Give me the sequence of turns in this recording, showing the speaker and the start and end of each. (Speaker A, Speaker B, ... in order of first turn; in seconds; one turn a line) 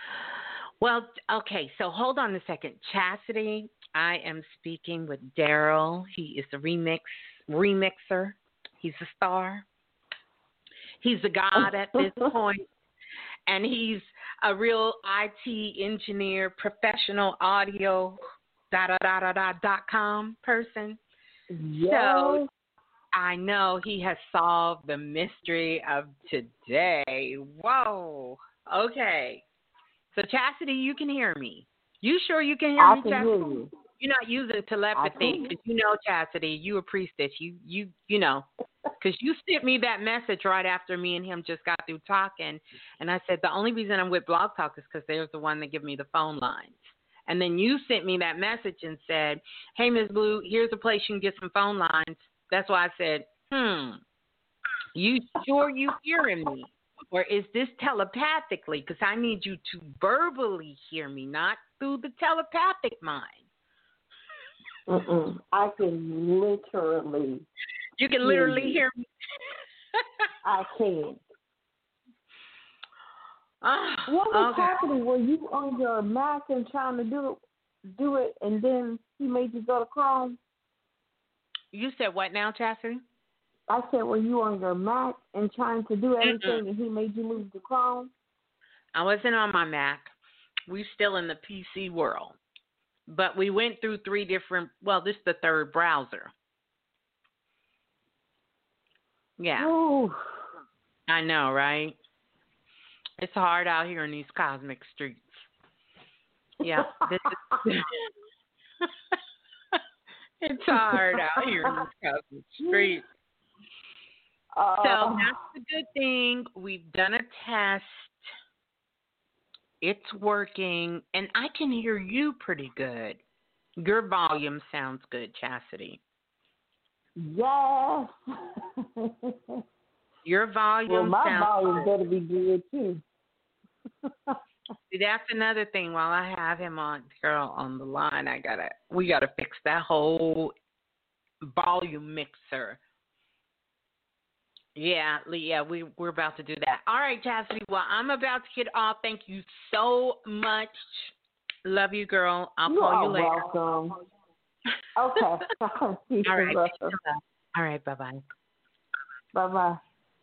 Speaker A: 0.8-9.7
Speaker A: 11.0-12.7
Speaker A: 13.5-18.2
Speaker A: 18.7-21.0
Speaker B: 21.5-22.5
Speaker A: 21.8-22.4
Speaker A: 23.1-29.4
Speaker A: 30.1-38.5
Speaker B: 32.8-33.7
Speaker B: 35.0-35.5
Speaker A: 39.0-54.0
Speaker A: 54.9-63.4
Speaker B: 64.9-67.5
Speaker A: 68.0-69.0
Speaker B: 68.2-68.8
Speaker B: 70.4-71.2
Speaker A: 73.6-74.7
Speaker B: 74.1-80.4
Speaker A: 81.7-83.0
Speaker B: 83.7-88.1
Speaker A: 86.2-86.6
Speaker A: 88.9-90.1
Speaker A: 90.7-92.4
Speaker A: 93.1-96.3
Speaker A: 99.4-99.7
Speaker B: 99.6-100.2
Speaker A: 101.1-102.0
Speaker A: 103.2-105.5
Speaker A: 106.6-108.1
Speaker A: 110.4-113.0
Speaker B: 112.7-113.0
Speaker B: 114.5-115.3
Speaker A: 114.8-118.1
Speaker A: 119.8-123.2
Speaker A: 123.8-126.0
Speaker B: 127.2-128.1
Speaker A: 130.2-131.9
Speaker B: 130.9-133.0
Speaker A: 134.9-140.5
Speaker A: 141.4-142.8
Speaker A: 144.8-151.1
Speaker A: 151.6-153.5
Speaker B: 152.6-154.0
Speaker B: 154.9-156.9
Speaker A: 156.3-158.2
Speaker B: 159.3-159.8